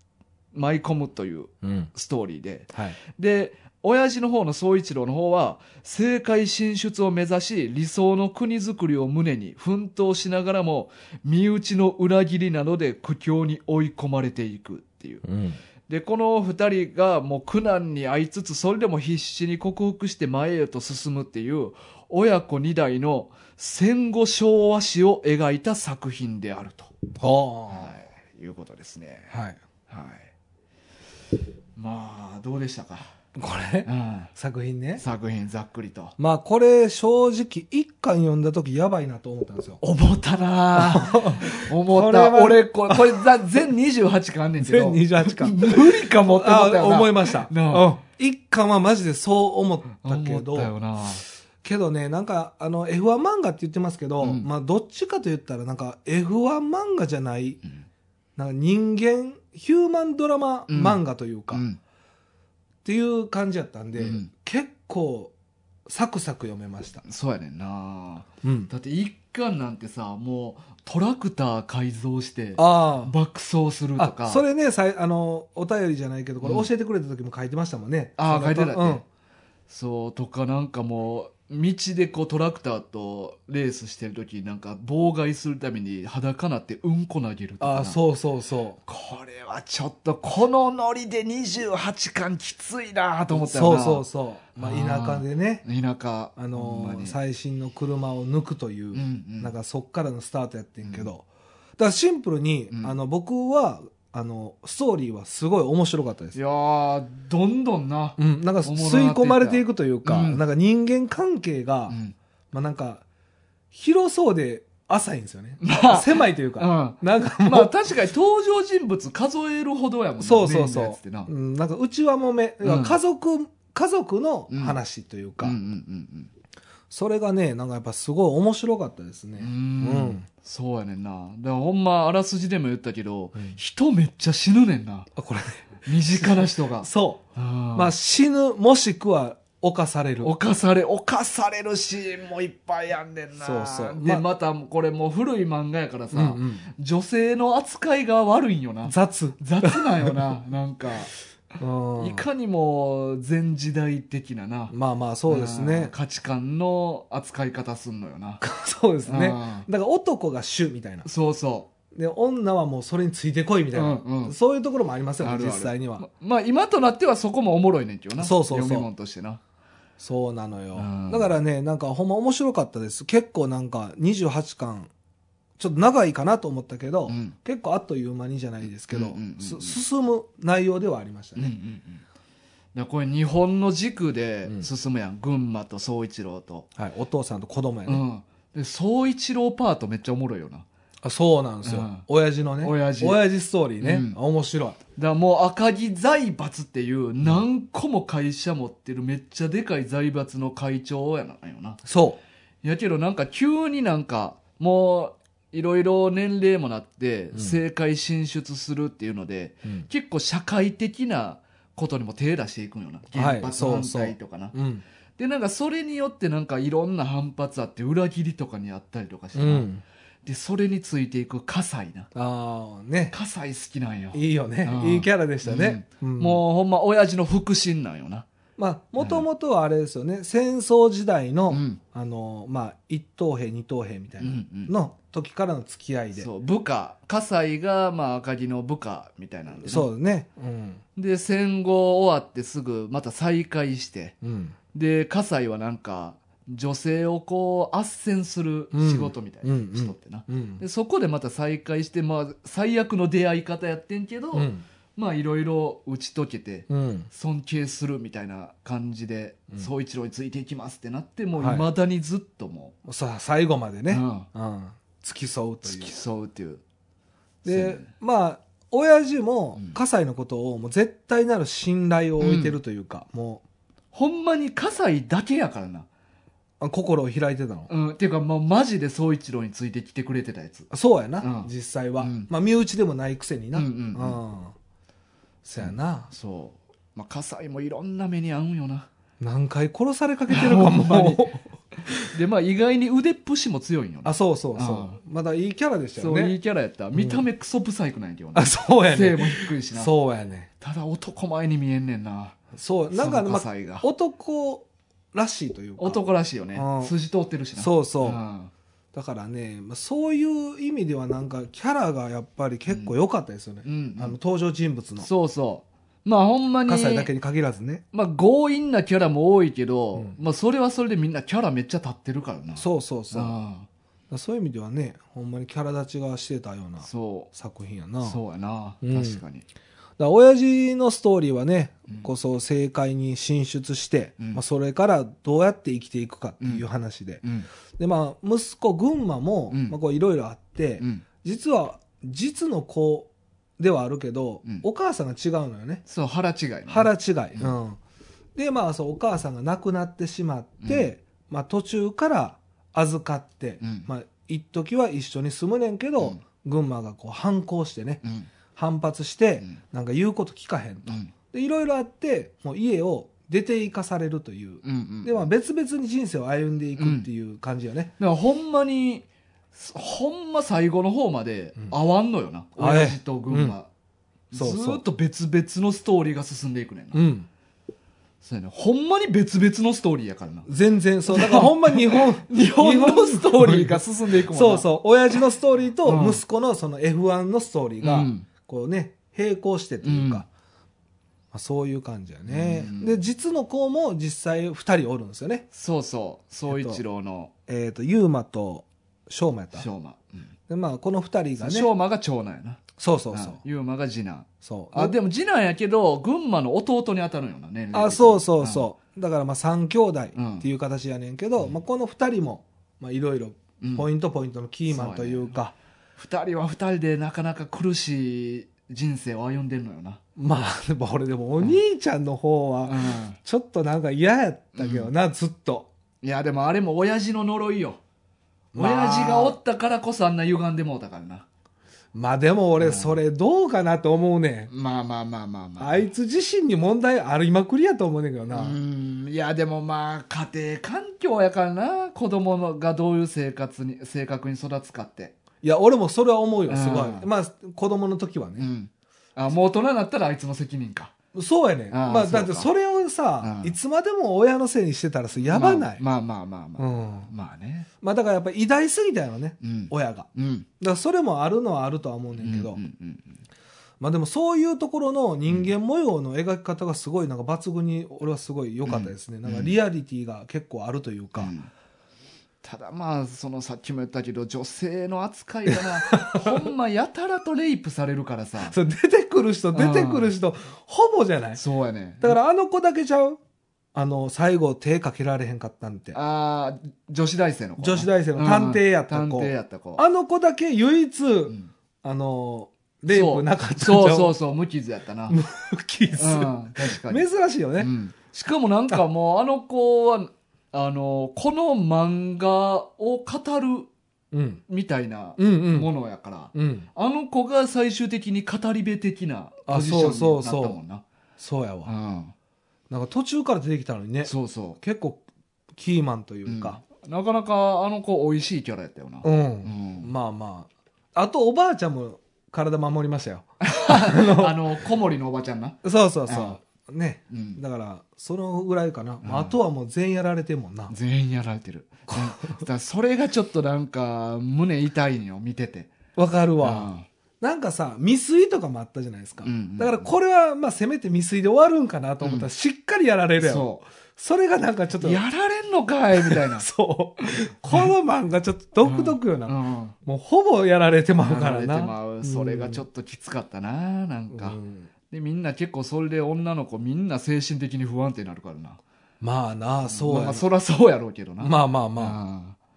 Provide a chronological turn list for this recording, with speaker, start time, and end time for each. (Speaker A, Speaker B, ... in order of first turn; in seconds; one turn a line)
Speaker A: 0.5-15.2
Speaker B: 1.6-1.9
Speaker B: 15.2-15.6
Speaker A: 15.9-26.9
Speaker B: 27.2-27.9
Speaker A: 27.7-29.4
Speaker B: 29.3-29.6
Speaker A: 29.9-30.3
Speaker A: 31.8-33.1
Speaker B: 33.4-35.0
Speaker A: 33.9-34.3
Speaker A: 35.0-36.1
Speaker B: 36.2-39.8
Speaker A: 39.8-47.9
Speaker B: 40.8-43.6
Speaker B: 44.6-50.7
Speaker A: 50.0-51.2
Speaker B: 51.6-57.6
Speaker A: 54.2-54.5
Speaker B: 58.4-61.6
Speaker A: 60.7-61.8
Speaker B: 62.9-65.3
Speaker A: 64.0-64.3
Speaker B: 65.9-67.0
Speaker A: 67.0-74.4
Speaker B: 68.4-68.7
Speaker B: 72.6-73.1
Speaker B: 74.0-79.0
Speaker A: 76.4-76.7
Speaker A: 78.2-79.0
Speaker A: 79.7-88.0
Speaker B: 87.6-88.8
Speaker A: 88.9-94.1
Speaker B: 93.3-95.6
Speaker A: 94.6-97.2
Speaker B: 96.4-101.2
Speaker A: 98.9-99.5
Speaker A: 100.8-101.1
Speaker B: 101.8-106.4
Speaker A: 102.7-103.0
Speaker A: 106.3-110.4
Speaker B: 108.2-112.0
Speaker A: 111.9-112.2
Speaker B: 112.5-113.0
Speaker B: 113.7-117.7
Speaker A: 115.6-121.3
Speaker B: 120.2-125.6
Speaker A: 122.6-123.0
Speaker A: 124.5-124.8
Speaker A: 125.4-126.3
Speaker B: 126.9-130.2
Speaker A: 129.4-135.1
Speaker B: 135.2-137.2
Speaker A: 135.8-137.9
Speaker B: 137.8-140.3
Speaker A: 140.2-151.1
Speaker B: 143.4-144.2
Speaker B: 146.1-146.7
Speaker B: 148.8-150.2
Speaker B: 151.6-152.2
Speaker A: 152.0-154.7
Speaker B: 154.7-155.9
Speaker A: 155.3-158.4
Speaker B: 158.4-161.1
Speaker A: 159.1-159.7
Speaker A: 161.1-161.7
Speaker B: 161.9-166.1
Speaker A: 163.7-164.3
Speaker A: 165.2-169.4
Speaker B: 168.2-168.9
Speaker B: 170.0-174.9
Speaker A: 170.8-171.3
Speaker B: 175.6-181.5
Speaker A: 177.1-177.4
Speaker A: 178.9-179.8
Speaker A: 181.4-182.0
Speaker A: 182.7-186.7
Speaker B: 186.8-188.0
Speaker A: 187.9-190.7
Speaker B: 191.0-194.8
Speaker A: 191.7-192.1
Speaker A: 192.6-193.2
Speaker A: 193.8-194.2
Speaker A: 195.0-201.8
Speaker B: 201.9-202.2
Speaker A: 202.6-214.6
Speaker B: 213.1-214.8
Speaker A: 215.2-219.7
Speaker B: 219.4-219.8
Speaker A: 220.2-222.1
Speaker B: 222.2-223.1
Speaker A: 223.1-228.3
Speaker B: 224.1-226.4
Speaker B: 228.6-236.3
Speaker A: 229.0-229.3
Speaker A: 231.5-231.8
Speaker A: 234.2-234.7
Speaker A: 236.2-239.9
Speaker B: 239.6-240.8
Speaker A: 241.0-244.2
Speaker B: 244.2-244.6
Speaker A: 244.7-262.8
Speaker B: 248.7-250.6
Speaker B: 254.3-254.6
Speaker B: 256.7-257.1
Speaker B: 261.4-261.7
Speaker B: 262.9-266.0
Speaker A: 263.9-264.3
Speaker A: 265.6-266.6
Speaker B: 267.4-273.4
Speaker A: 267.5-267.9
Speaker A: 272.2-272.6
Speaker A: 273.9-275.9
Speaker B: 276.6-277.7
Speaker A: 277.7-280.7
Speaker B: 280.7-284.5
Speaker A: 281.2-282.3
Speaker A: 283.5-284.2
Speaker B: 285.4-286.1
Speaker A: 285.6-288.9
Speaker B: 289.2-292.1
Speaker A: 290.3-291.2
Speaker A: 291.8-295.0
Speaker B: 294.1-296.4
Speaker A: 296.0-299.9
Speaker B: 296.9-297.2
Speaker B: 298.4-300.5
Speaker A: 300.6-302.4
Speaker B: 302.6-306.0
Speaker A: 302.9-303.9
Speaker A: 305.8-308.5
Speaker B: 306.6-306.9
Speaker B: 307.6-308.2
Speaker B: 308.9-315.1
Speaker A: 312.7-312.9
Speaker A: 313.6-314.2
Speaker A: 315.0-317.1
Speaker B: 316.7-317.8
Speaker A: 317.9-323.7
Speaker B: 322.6-323.4
Speaker B: 324.1-328.2
Speaker A: 326.8-327.3
Speaker A: 328.0-329.4
Speaker B: 328.8-329.2
Speaker B: 330.0-337.2
Speaker A: 337.2-337.5
Speaker B: 337.8-345.8
Speaker A: 339.5-339.8
Speaker A: 340.8-341.0
Speaker A: 345.9-347.6
Speaker B: 346.7-347.8
Speaker B: 348.4-358.0
Speaker A: 353.6-353.9
Speaker A: 358.0-358.3
Speaker B: 358.6-367.9
Speaker A: 360.9-361.1
Speaker A: 364.6-365.3
Speaker A: 366.8-367.1
Speaker A: 368.0-373.7
Speaker B: 372.6-373.6
Speaker A: 374.3-377.1
Speaker B: 374.3-374.8
Speaker B: 376.9-377.3
Speaker A: 378.2-380.5
Speaker B: 380.5-390.3
Speaker A: 381.1-384.7
Speaker A: 385.9-386.2
Speaker A: 387.8-388.3
Speaker A: 389.8-390.2
Speaker B: 391.3-395.5
Speaker A: 392.3-393.0
Speaker A: 395.5-397.3
Speaker B: 396.5-396.8
Speaker B: 397.5-399.7
Speaker A: 399.6-400.3
Speaker B: 400.5-401.7
Speaker A: 401.4-408.7
Speaker B: 402.8-403.4
Speaker B: 404.4-405.0
Speaker B: 407.7-415.5
Speaker A: 410.1-410.5
Speaker A: 413.6-413.9
Speaker A: 414.7-415.4
Speaker A: 416.0-420.0
Speaker B: 420.2-425.7
Speaker A: 422.7-423.2
Speaker A: 424.6-424.9
Speaker A: 426.0-427.8
Speaker B: 428.5-429.4
Speaker A: 428.6-431.3
Speaker B: 431.9-434.5
Speaker A: 432.6-433.0
Speaker A: 434.5-435.9
Speaker B: 435.6-438.6
Speaker A: 438.3-445.2
Speaker B: 445.4-448.5
Speaker A: 446.5-447.1
Speaker A: 448.4-450.9
Speaker B: 451.1-455.8
Speaker A: 451.7-452.5
Speaker A: 453.2-453.6
Speaker A: 455.2-457.7
Speaker B: 456.6-457.1
Speaker B: 457.8-460.1
Speaker A: 459.4-460.5
Speaker B: 460.6-462.6
Speaker A: 462.2-463.2
Speaker B: 463.8-471.3
Speaker A: 468.7-469.6
Speaker A: 471.2-471.5
Speaker A: 472.4-478.6
Speaker B: 475.5-476.4
Speaker B: 478.4-481.4
Speaker A: 479.5-480.1
Speaker A: 481.4-482.2
Speaker B: 482.0-483.2
Speaker B: 483.7-486.0
Speaker A: 485.9-489.8
Speaker B: 487.6-494.1
Speaker A: 492.9-495.2
Speaker B: 495.1-497.7
Speaker A: 496.0-497.1
Speaker A: 497.6-503.7
Speaker B: 504.1-504.4
Speaker A: 504.5-510.8
Speaker B: 505.2-505.7
Speaker B: 506.3-506.7
Speaker B: 509.5-510.6
Speaker B: 511.2-511.7
Speaker A: 511.6-512.1
Speaker B: 512.7-515.0
Speaker A: 514.0-514.6
Speaker B: 515.6-516.6
Speaker A: 516.3-519.9
Speaker B: 519.0-524.4
Speaker A: 523.4-526.4
Speaker B: 525.6-530.8
Speaker A: 527.1-527.4
Speaker A: 529.0-529.4
Speaker A: 530.7-535.7
Speaker B: 531.9-532.4
Speaker B: 536.0-545.0
Speaker A: 536.4-536.9
Speaker A: 539.2-539.9
Speaker A: 542.0-542.3
Speaker A: 543.2-543.6
Speaker A: 544.8-546.5
Speaker B: 546.0-552.6
Speaker A: 548.6-549.8
Speaker A: 551.0-554.4
Speaker B: 554.1-554.7
Speaker A: 554.9-558.6
Speaker B: 559.0-560.2
Speaker A: 559.7-562.4
Speaker B: 561.2-562.0